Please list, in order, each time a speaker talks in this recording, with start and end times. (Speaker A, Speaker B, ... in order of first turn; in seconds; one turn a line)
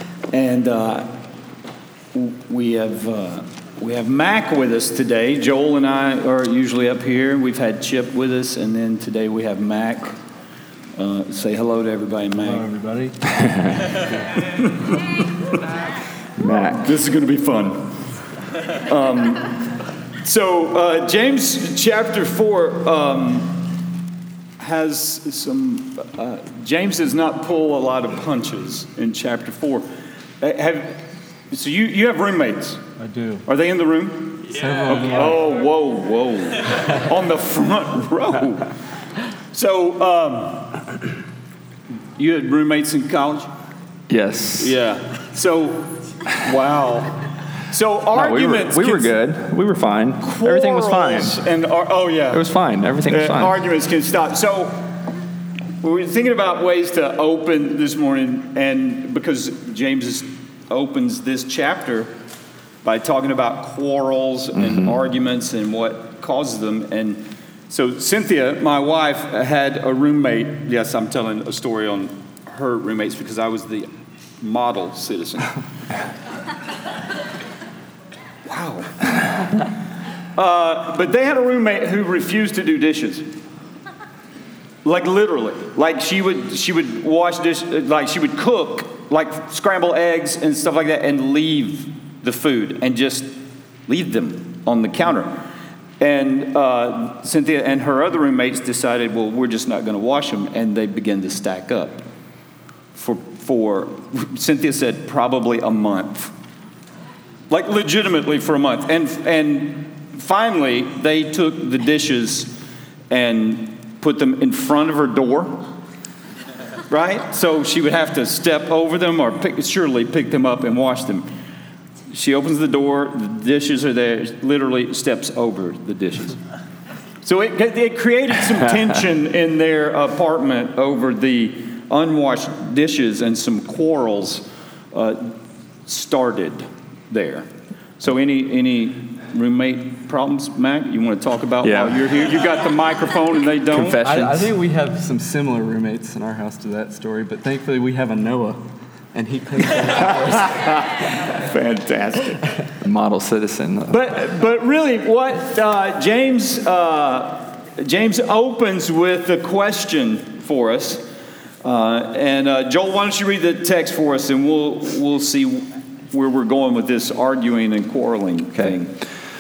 Speaker A: 0.3-1.1
Speaker A: 2.1-10.2
Speaker A: 11.0-12.7
Speaker B: 12.5-13.2
Speaker A: 14.3-15.6
Speaker A: 16.4-18.0
Speaker C: 16.4-16.9
Speaker A: 18.7-23.7
Speaker A: 24.6-29.9
Speaker A: 30.4-32.8
Speaker B: 33.0-33.4
Speaker A: 33.5-38.8
Speaker B: 34.6-35.4
Speaker A: 39.5-40.8
Speaker A: 42.2-43.5
Speaker C: 44.1-44.8
Speaker A: 44.6-49.1
Speaker C: 48.1-51.4
Speaker A: 50.2-52.4
Speaker C: 52.3-53.6
Speaker A: 53.1-54.9
Speaker A: 55.8-62.1
Speaker A: 62.8-75.5
Speaker C: 64.6-64.9
Speaker A: 78.5-79.0
Speaker A: 80.3-83.3
Speaker A: 84.8-93.3
Speaker A: 93.9-95.4
Speaker A: 96.0-102.0
Speaker A: 103.0-106.3
Speaker A: 107.5-112.5
Speaker A: 113.1-115.7
Speaker A: 116.9-121.3
Speaker A: 122.1-126.4
Speaker A: 127.2-144.0
Speaker C: 141.6-142.3
Speaker C: 143.7-144.5
Speaker B: 144.0-148.6
Speaker B: 149.1-150.8
Speaker A: 150.0-152.4
Speaker C: 152.8-154.2
Speaker A: 153.9-161.1
Speaker A: 161.6-168.9